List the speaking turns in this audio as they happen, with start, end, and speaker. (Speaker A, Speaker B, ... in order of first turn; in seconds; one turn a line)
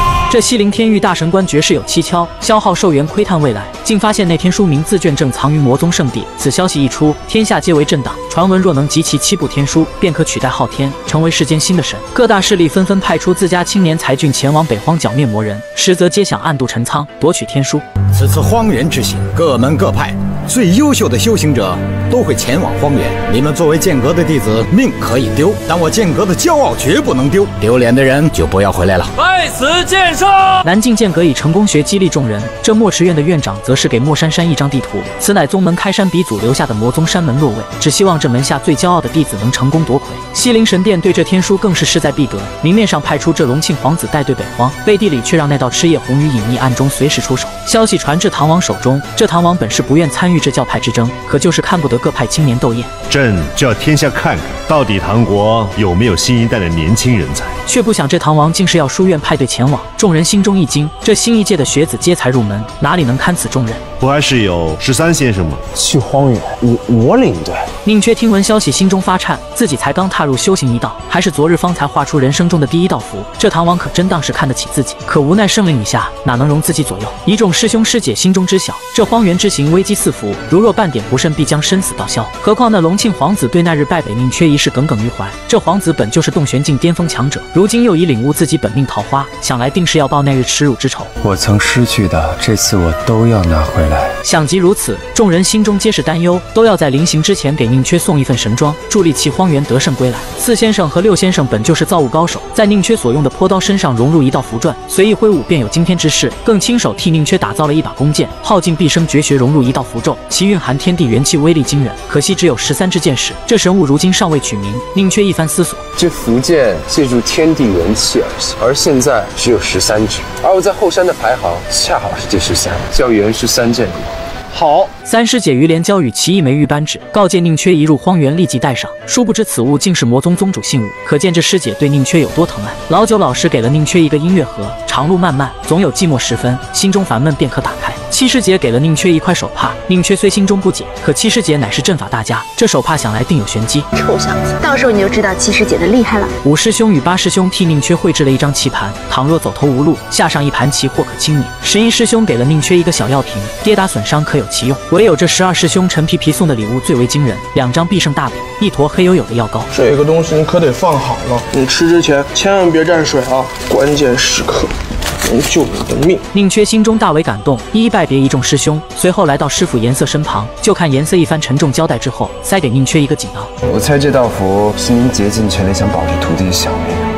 Speaker A: 0.3-17.8
Speaker B: 18.1-29.1
Speaker A: 30.6-52.9
Speaker C: 53.1-57.5
Speaker A: 57.7-63.8
Speaker C: 64.0-65.6
Speaker D: 65.8-67.6
Speaker A: 67.8-91.1
Speaker E: 91.3-94.1
Speaker D: 92.0-92.5
Speaker A: 94.2-115.8
Speaker D: 116.0-124.1
Speaker A: 124.8-143.9
Speaker F: 144.0-146.3
Speaker A: 146.4-159.7
Speaker G: 159.7-164.7
Speaker G: 165.2-166.2
Speaker A: 166.3-173.5
Speaker D: 173.7-177.0